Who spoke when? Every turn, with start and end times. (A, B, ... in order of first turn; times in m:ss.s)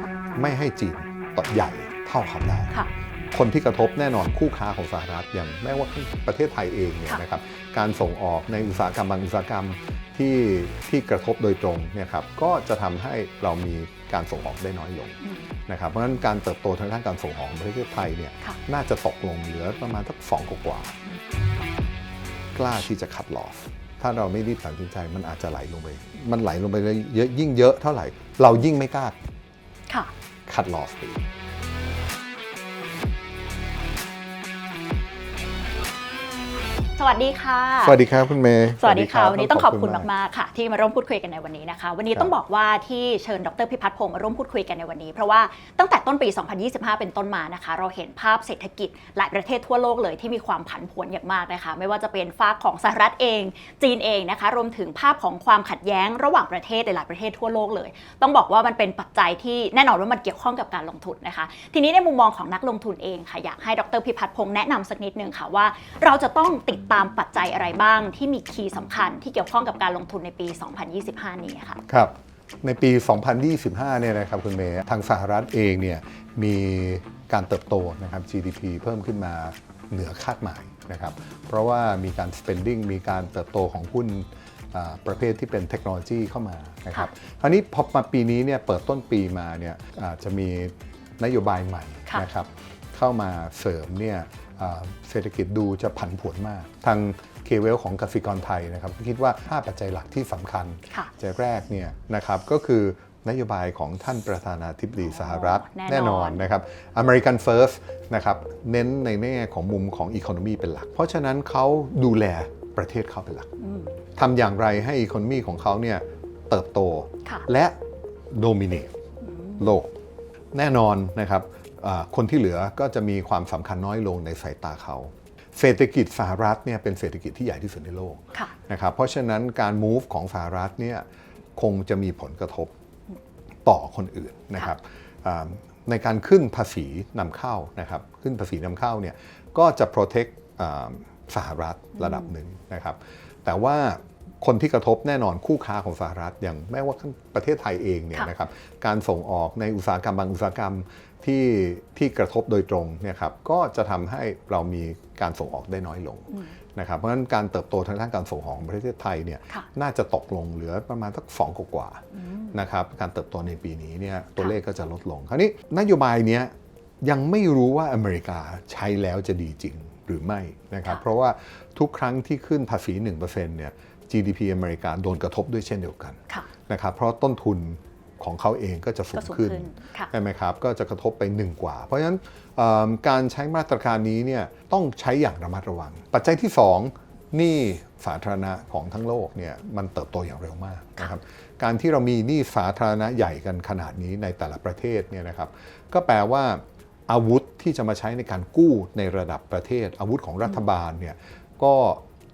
0:00.3-0:02.8 A
0:03.3-0:21.0 A
0:15.2-0:15.5 B
0:22.5-0:29.2 A
0:30.5-0:31.2 A
0:37.0-0:38.0 B
0:37.8-0:40.1 A
0:38.8-1:11.8 B
1:11.9-1:53.5 A
1:45.0-1:46.5 B
1:53.6-1:53.9 B
1:54.2-1:57.8 A
1:58.3-1:58.9 A
1:59.2-1:59.7 B
1:59.6-1:59.9 A
2:00.5-2:11.0 A
2:11.6-2:12.7 A
2:13.7-3:22.0 A
2:42.2-2:42.5 B
2:59.2-3:00.1 B